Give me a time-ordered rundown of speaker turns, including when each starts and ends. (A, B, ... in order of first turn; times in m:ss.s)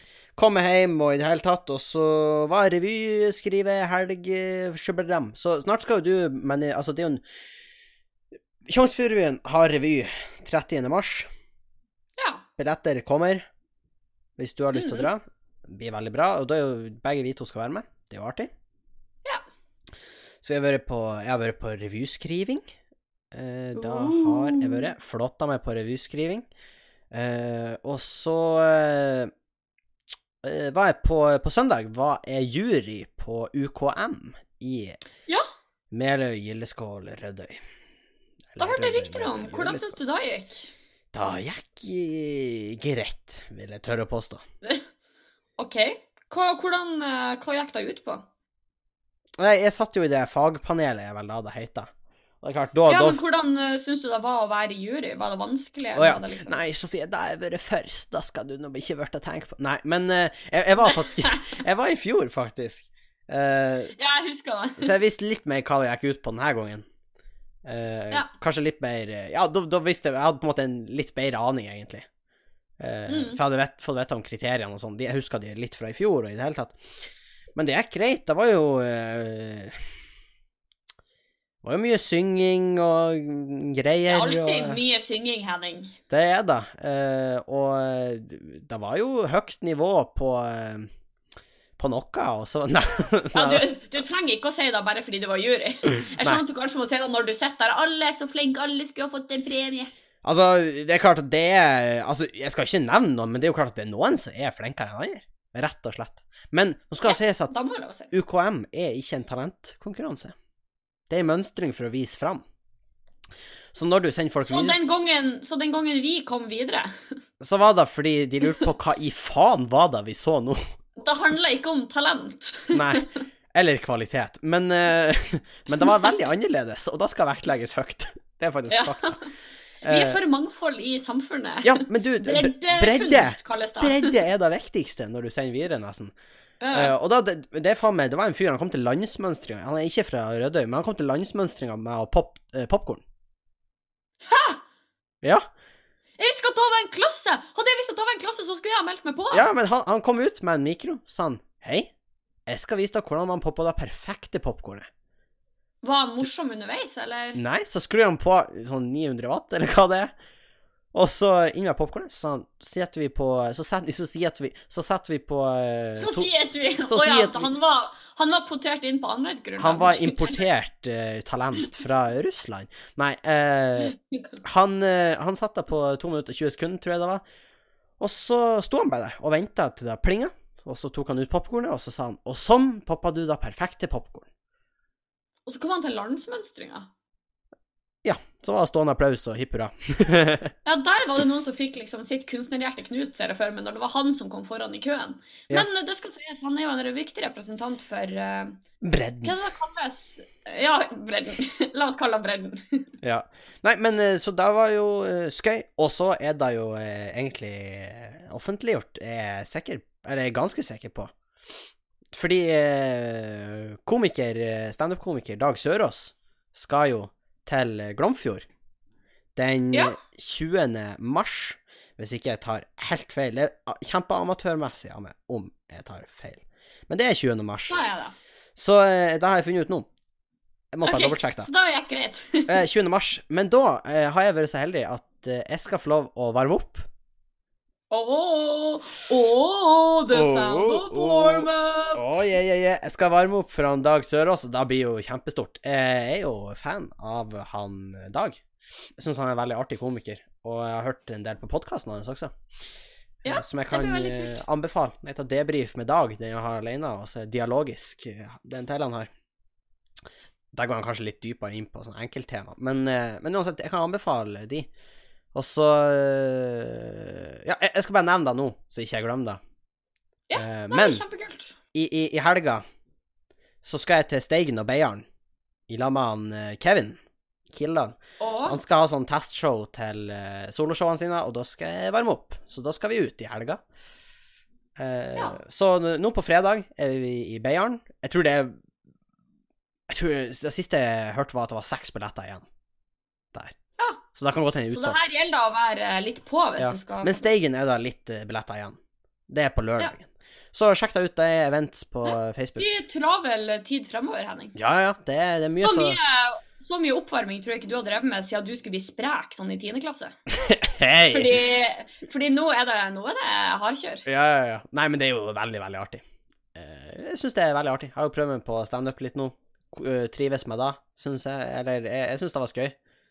0:00.4-0:07.2 A
0:08.7-0:11.3 A
0:12.2-0:12.4 B
0:12.6-0:13.4 A
0:14.4-0:18.5 A
0:14.7-0:15.1 B
0:20.4-0:22.7 A
0:23.3-0:26.4 A
0:23.8-0:24.9 B
0:27.1-0:29.3 A
0:30.4-0:35.0 A
0:35.9-0:37.6 A
0:38.5-0:40.0 A
0:38.6-0:40.7 B
0:41.1-0:44.4 A
0:45.6-0:48.3 B
0:49.4-0:51.9 A
0:52.4-0:53.2 A
0:52.9-0:56.6 B
0:55.9-1:03.9 A
1:00.9-1:01.4 B
1:04.0-1:04.9 B
1:04.8-1:06.8 A
1:07.6-1:12.0 A
1:12.8-1:16.8 A
1:13.1-1:13.4 B
1:17.5-1:19.8 A
1:21.6-1:24.8 A
1:24.1-1:26.0 B
1:26.1-1:30.9 A
1:31.8-1:33.6 A
1:33.3-1:39.9 B
1:40.2-1:47.5 A
1:47.0-1:48.1 B
1:48.1-1:50.3 A
1:51.1-1:52.4 A
1:53.7-1:54.8 A
1:54.4-1:57.0 B
1:57.4-2:00.6 A
2:01.0-2:03.1 B
2:02.7-2:09.2 A
2:08.7-2:09.3 B
2:09.8-2:10.2 A
2:09.8-2:14.2 B
2:11.6-2:16.1 A
2:16.6-2:16.9 B
2:16.7-2:23.0 A
2:24.2-2:24.6 B
2:26.2-2:29.4 B
2:29.3-2:31.9 A
2:32.5-2:34.9 A
2:35.8-2:37.4 B
2:37.3-2:40.1 A
2:40.9-2:46.3 A
2:46.0-2:50.4 B
2:46.8-2:47.5 A
2:49.6-2:57.2 A
2:53.8-2:54.3 B
2:58.0-3:04.2 A
3:05.4-3:06.9 B
3:08.0-3:10.5 A
3:10.6-3:18.6 B
3:18.8-3:19.3 A
3:19.2-3:22.9 B
3:23.0-3:31.1 A
3:32.1-3:38.4 A
3:39.4-3:47.8 A
3:47.7-3:48.1 B
3:48.6-3:49.9 A
3:50.7-3:51.5 A
3:50.8-3:52.6 B
3:52.5-3:56.8 A
3:57.9-4:02.0 B
4:00.1-4:08.4 A
4:09.0-4:12.3 A
4:13.2-4:14.4 B
4:13.2-4:19.1 A
4:20.5-4:24.7 A
4:25.3-4:29.4 A
4:30.3-4:31.5 B
4:30.3-4:31.0 A
4:31.7-4:32.6 A
4:33.6-4:35.0 A
4:35.7-4:37.0 A
4:37.5-4:43.6 A
4:38.2-4:38.6 B
4:44.8-4:48.6 A
4:49.9-4:52.4 A
4:54.1-4:55.0 A
4:54.7-4:57.3 B
4:56.6-4:58.8 A
4:59.3-5:02.7 A
5:02.0-5:04.5 B
5:04.5-5:06.0 A
5:05.6-5:10.1 B
5:10.3-5:11.4 A
5:11.1-5:14.0 B
5:14.0-5:16.0 A
5:16.5-5:22.7 A